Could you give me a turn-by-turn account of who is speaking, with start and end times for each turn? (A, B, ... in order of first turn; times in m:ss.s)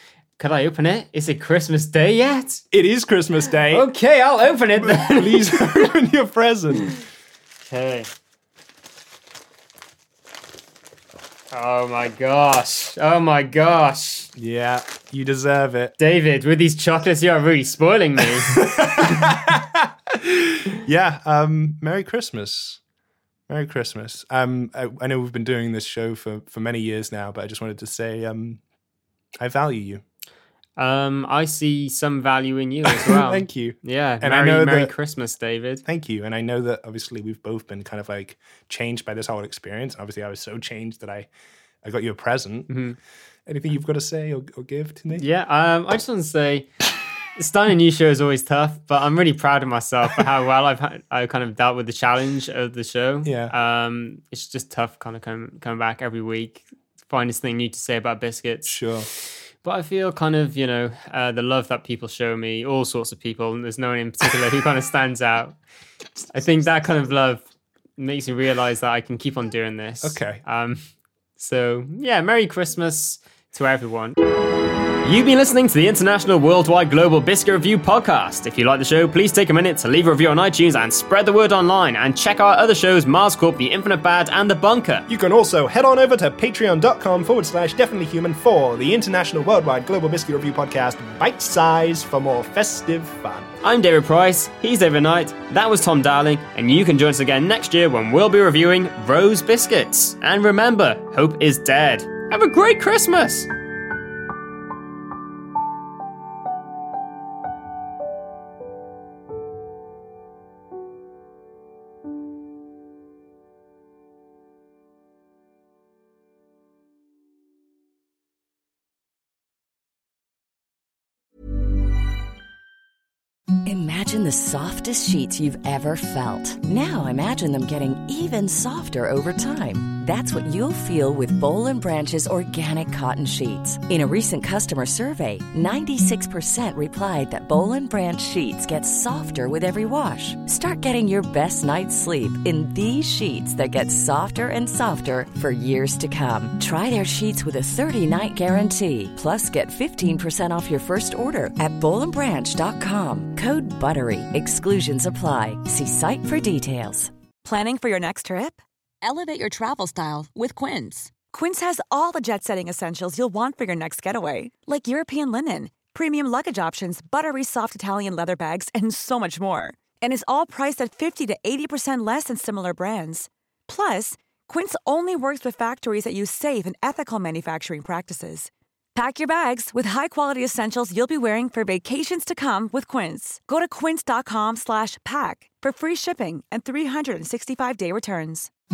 0:00.4-0:02.6 A
0:02.7-0:03.9 B
0:03.7-0:05.6 A
0:04.8-0:07.0 B
0:07.6-0:08.1 A
0:11.5-0:14.3 A
0:14.4-0:15.9 B
0:16.0-0:18.6 A
0:18.5-0:22.8 B
0:23.5-0:28.6 B
0:29.4-0:30.0 B
0:30.8-0:35.8 A
0:32.8-0:34.9 B
0:35.8-0:41.3 B
0:41.8-0:42.8 B
0:42.7-0:43.0 A
0:43.4-0:45.2 B
0:45.1-0:46.7 A
0:47.4-1:05.6 A
0:53.2-0:53.5 B
0:58.6-0:59.1 B
1:06.3-1:07.4 A
1:08.0-1:10.8 A
1:10.0-1:10.4 B
1:11.4-1:14.2 A
1:15.0-1:25.0 A
1:25.1-1:33.5 B
1:33.6-1:43.5 A
2:03.6-2:37.1 C
2:37.4-3:08.5 D